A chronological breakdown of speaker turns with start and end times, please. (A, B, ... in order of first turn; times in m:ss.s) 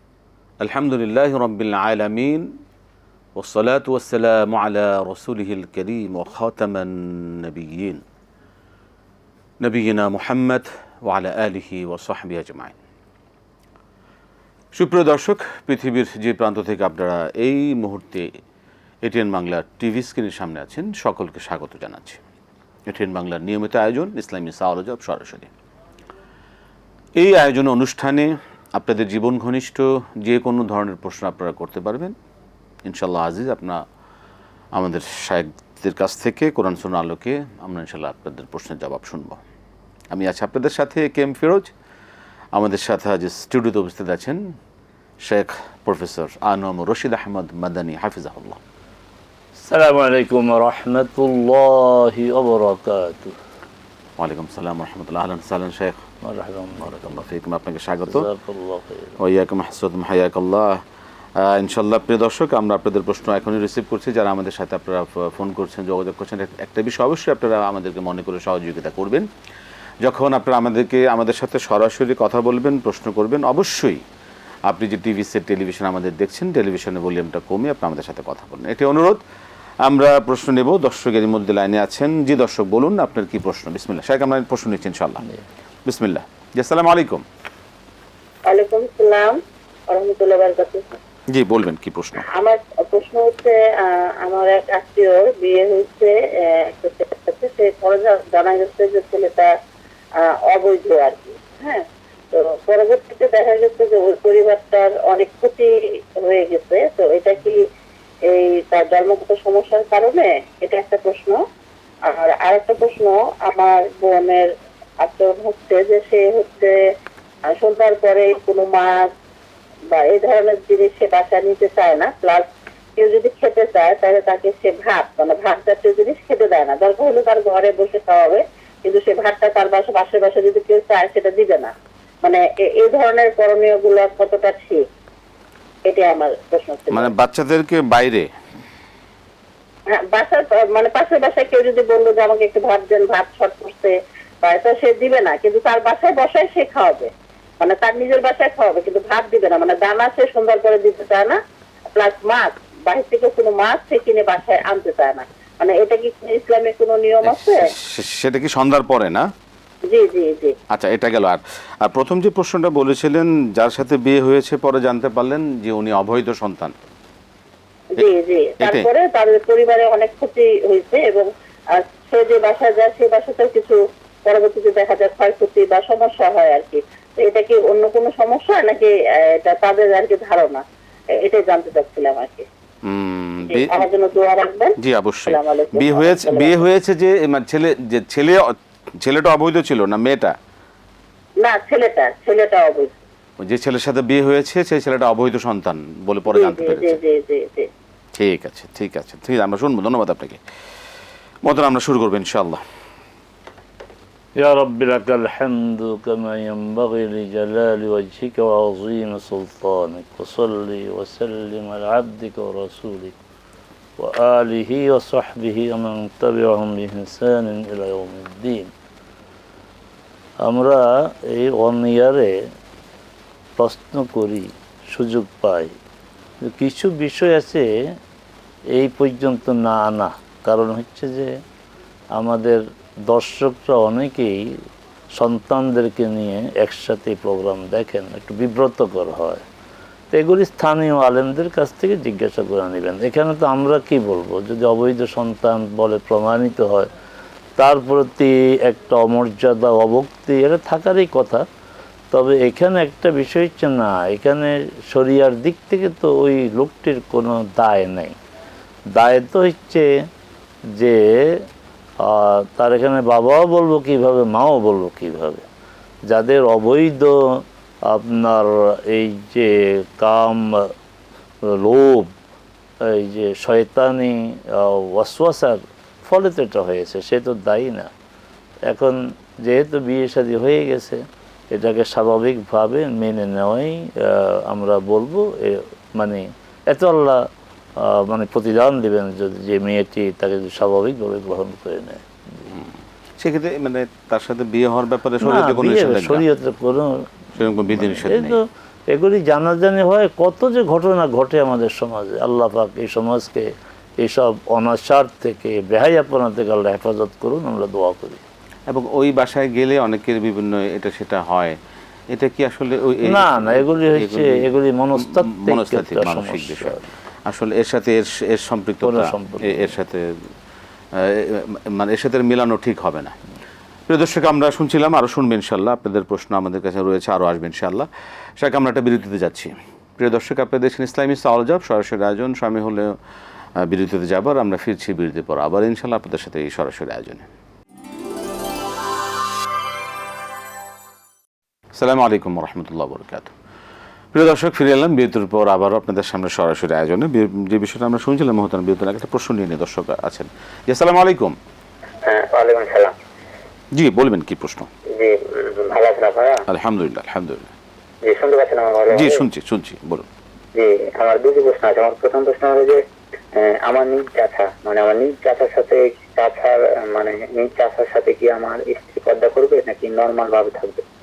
0:00.6-0:02.5 A
0:03.4-0:08.0 A
0:09.6-0:12.8 A
0:14.8-0:18.3 A
0:19.0-0:22.2 A
0:22.9-0:25.5 A
0:27.2-0:32.2 A
0:32.8-0:33.8 A
0:34.8-0:39.4 A
0:40.1-0:41.7 A
0:42.5-0:44.4 A
0:45.2-0:48.6 A
0:49.6-0:53.4 B
0:54.2-0:56.0 A
0:56.2-0:57.2 B
0:56.8-0:58.3 A
0:58.1-0:59.2 B
0:59.2-1:00.8 A
1:01.4-1:09.3 A
1:10.0-1:14.0 A
1:14.7-1:19.2 A
1:19.8-1:25.2 A
1:25.9-1:27.2 A
1:28.5-1:29.4 C
1:29.9-1:31.0 C
1:31.3-1:32.2 A
1:32.4-1:39.5 C
1:40.2-1:47.6 C
1:48.3-1:51.4 C
1:52.0-1:54.5 C
1:55.0-1:56.8 C
1:57.5-1:59.1 C
1:59.9-2:02.4 C
2:03.0-2:11.7 C
2:12.2-2:14.8 C
2:15.9-2:17.1 C
2:16.9-2:18.3 A
2:20.0-2:31.4 C
2:31.9-2:37.6 C
2:37.2-2:39.3 A
2:39.9-2:40.6 C
2:40.7-2:46.8 A
2:48.0-3:00.6 C
2:48.6-2:48.9 A
3:01.2-3:02.5 C
3:02.8-3:03.8 A
3:03.5-3:04.7 C
3:04.8-3:10.3 A
3:05.3-3:06.6 C
3:11.4-3:12.9 C
3:13.4-3:17.0 A
3:16.3-3:17.7 C
3:18.2-3:20.4 A
3:21.4-3:22.6 A
3:24.4-3:33.2 B
3:34.0-3:38.7 B
3:40.4-3:42.3 B
3:43.6-3:45.7 B
3:46.4-3:47.7 B
3:48.7-3:51.4 B
3:52.2-3:54.5 B
3:55.2-3:59.4 B
4:00.1-4:06.9 B
4:07.6-4:11.4 B
4:12.1-4:18.2 B
4:18.9-4:19.9 B
4:20.7-4:21.5 B
4:22.0-4:25.4 B
4:26.1-4:30.7 B
4:31.5-4:32.1 B
4:32.8-4:37.9 B
4:38.7-4:47.2 B
4:47.8-4:52.0 B
4:53.2-4:56.2 A
4:55.2-4:57.0 B
4:57.4-4:58.4 A
4:57.7-5:03.5 B
5:04.0-5:08.2 B
5:08.7-5:11.6 A
5:12.1-5:14.5 A
5:13.0-5:16.9 B
5:15.0-5:16.8 A
5:17.3-5:20.0 A
5:18.8-5:19.8 B
5:21.0-5:23.2 A
5:23.9-5:27.9 A
5:28.4-5:33.0 A
5:33.6-5:37.3 A
5:41.8-5:43.3 A
5:44.1-5:51.4 A
5:52.1-5:52.9 D
5:53.7-5:54.7 A
5:55.0-5:56.4 D
5:56.5-5:57.5 A
5:58.0-5:59.2 D
5:58.9-6:00.1 A
6:00.6-6:02.8 D
6:03.4-6:10.8 D